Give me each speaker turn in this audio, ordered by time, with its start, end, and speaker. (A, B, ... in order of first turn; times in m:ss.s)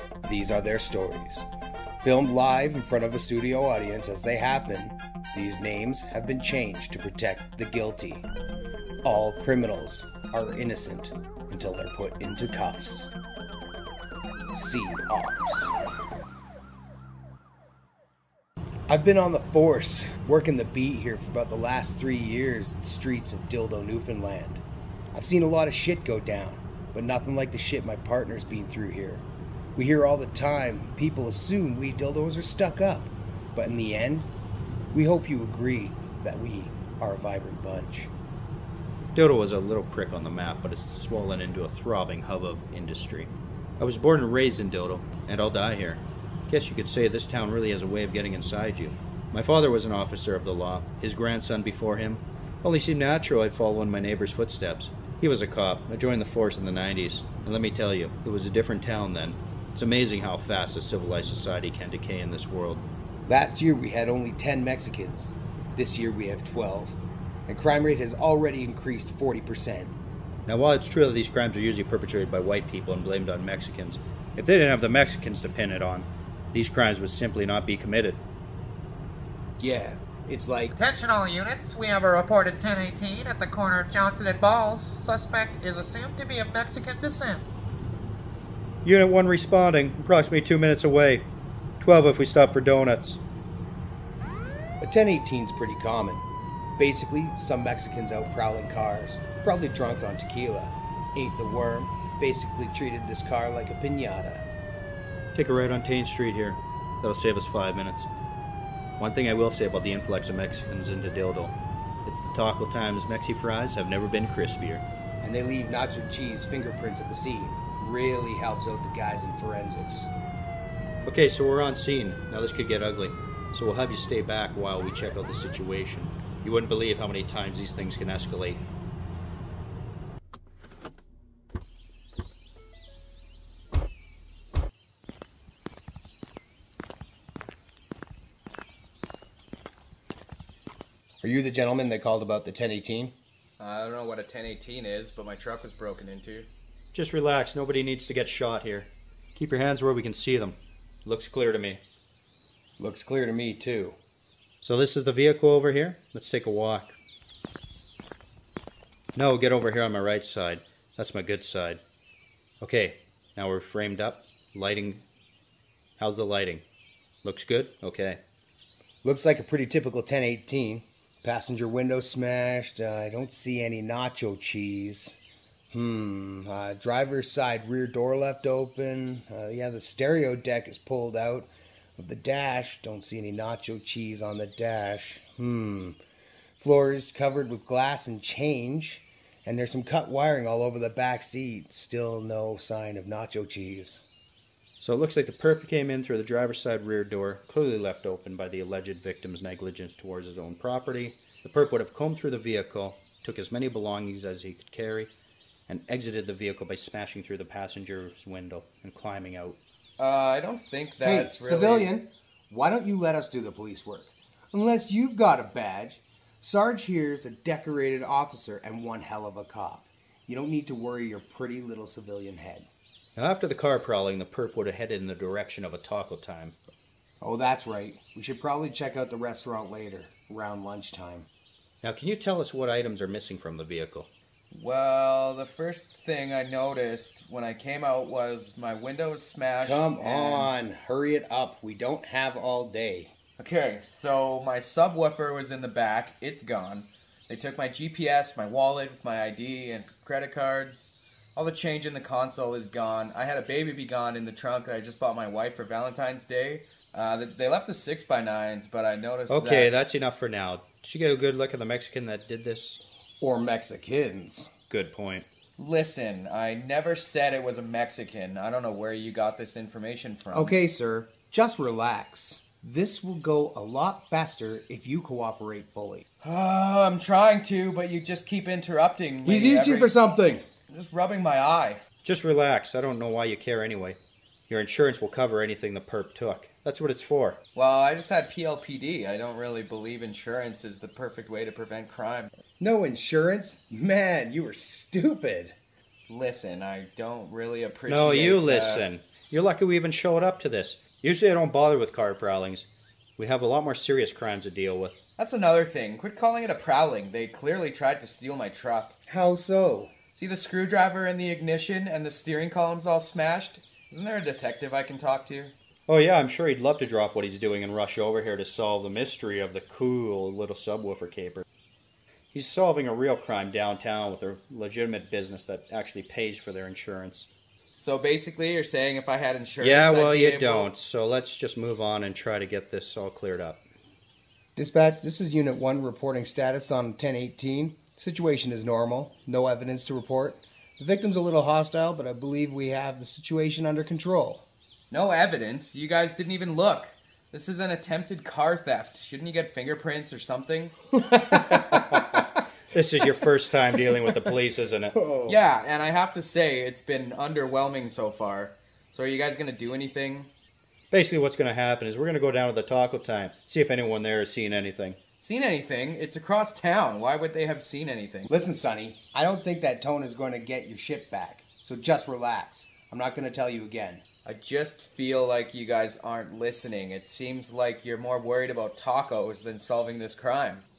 0:00.2-0:01.4 A
0:02.0-0:08.3 A
0:09.0-0:13.1 A
0:14.5-0:15.7 A
0:18.9-0:34.3 A
0:34.9-0:38.1 A
0:39.1-1:02.8 B
1:03.2-1:09.9 A
1:10.4-1:18.2 B
1:19.6-1:20.8 A
1:20.8-1:27.4 C
1:28.8-1:31.2 B
1:31.8-1:33.2 B
1:34.8-1:36.2 A
1:36.8-1:44.4 A
1:45.3-1:48.1 B
1:49.0-1:54.8 B
1:55.2-2:00.1 A
2:01.0-2:08.6 B
2:21.2-2:23.1 A
2:23.6-2:26.5 D
2:26.9-2:31.8 B
2:32.8-2:34.0 A
2:34.6-2:37.0 B
2:39.1-2:41.8 B
2:42.6-2:45.0 B
2:46.0-2:46.6 B
2:47.2-2:48.2 B
2:49.0-2:55.2 A
2:55.7-3:06.0 A
3:06.6-3:14.0 A
3:14.8-3:25.1 B
3:25.7-3:29.6 B
3:30.0-3:31.9 D
3:31.0-3:42.7 A
3:43.2-3:46.6 B
3:47.2-3:51.3 A
3:51.8-3:54.1 B
3:54.5-4:00.5 D
3:59.6-4:03.1 A
4:03.4-4:19.7 D
4:19.3-4:22.8 B
4:23.2-4:24.5 A
4:24.7-4:25.3 B
4:25.6-4:30.6 D
4:30.3-4:36.0 A
4:36.2-4:39.9 D
4:39.2-4:40.4 A
4:40.7-4:41.8 D
4:42.0-4:47.4 B
4:47.5-4:52.3 D
4:52.6-4:55.5 A
4:56.1-4:58.8 D
4:57.9-5:05.0 B
5:05.2-5:09.0 D
5:09.1-5:10.0 A
5:10.1-5:15.5 D
5:15.9-5:21.4 B
5:22.3-5:27.3 B
5:27.8-5:30.7 D
5:29.6-5:33.6 B
5:34.6-5:44.4 A
5:44.9-5:50.8 D
5:51.0-5:52.2 A
5:51.4-5:55.0 B
5:54.9-5:55.4 A
5:55.2-6:00.3 D
6:00.9-6:05.0 B
6:05.2-6:08.3 D
6:08.3-6:14.0 A
6:14.2-6:20.6 D